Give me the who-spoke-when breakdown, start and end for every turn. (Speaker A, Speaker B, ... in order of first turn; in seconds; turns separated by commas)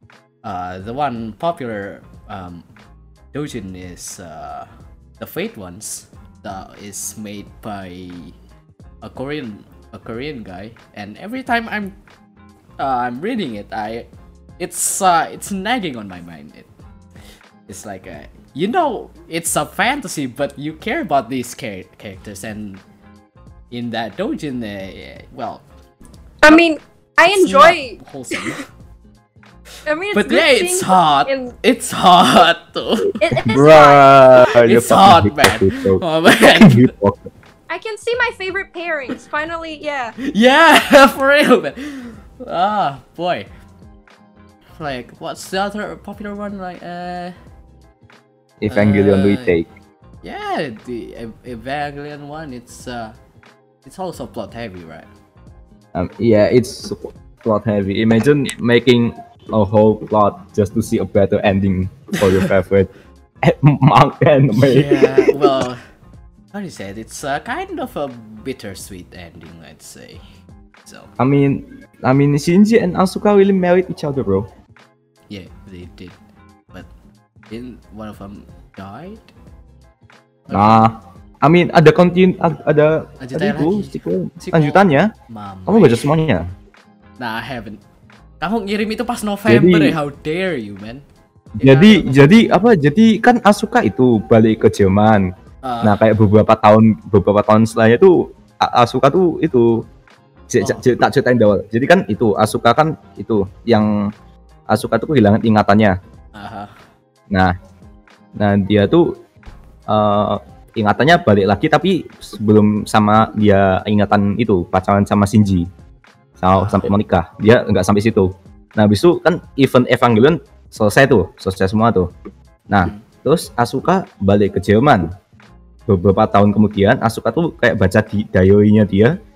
Speaker A: 0.4-2.7, Speaker A: 3.3-4.7, Speaker A: 5.2-8.4, Speaker A: 9.0-11.9, Speaker A: 12.8-14.1, Speaker A: 14.6-16.7, Speaker A: 17.7-22.8, Speaker A: 23.7-25.6, Speaker B: 26.4-28.4, Speaker A: 27.3-28.6, Speaker B: 29.9-31.5, Speaker A: 30.1-33.2, Speaker B: 33.2-34.4, Speaker C: 33.4-37.3, Speaker A: 34.6-36.9, Speaker B: 37.7-40.1, Speaker A: 40.2-43.5, Speaker A: 44.8-47.4, Speaker C: 48.6-49.7, Speaker A: 48.7-49.5, Speaker A: 50.2-53.2, Speaker A: 53.8-55.1, Speaker C: 55.9-62.9, Speaker C: 63.4-65.6, Speaker A: 64.5-65.8, Speaker A: 66.5-70.2, Speaker A: 70.8-71.1, Speaker C: 71.2-74.5, Speaker A: 75.3-76.2, Speaker A: 77.5-79.3, Speaker A: 80.5-80.9, Speaker C: 80.5-85.1, Speaker A: 83.2-86.1, Speaker C: 85.7-86.4, Speaker A: 87.2-87.8, Speaker A: 88.4-91.0, Speaker C: 89.5-90.0, Speaker C: 91.6-95.3, Speaker A: 91.6-92.5, Speaker A: 95.6-96.0, Speaker C: 95.8-99.8, Speaker C: 100.5-103.9, Speaker C: 104.7-106.0, Speaker A: 106.3-106.7, Speaker C: 108.4-109.2, Speaker C: 109.9-115.7, Speaker C: 116.4-122.1, Speaker A: 116.5-116.9, Speaker C: 122.7-125.1, Speaker C: 125.9-129.2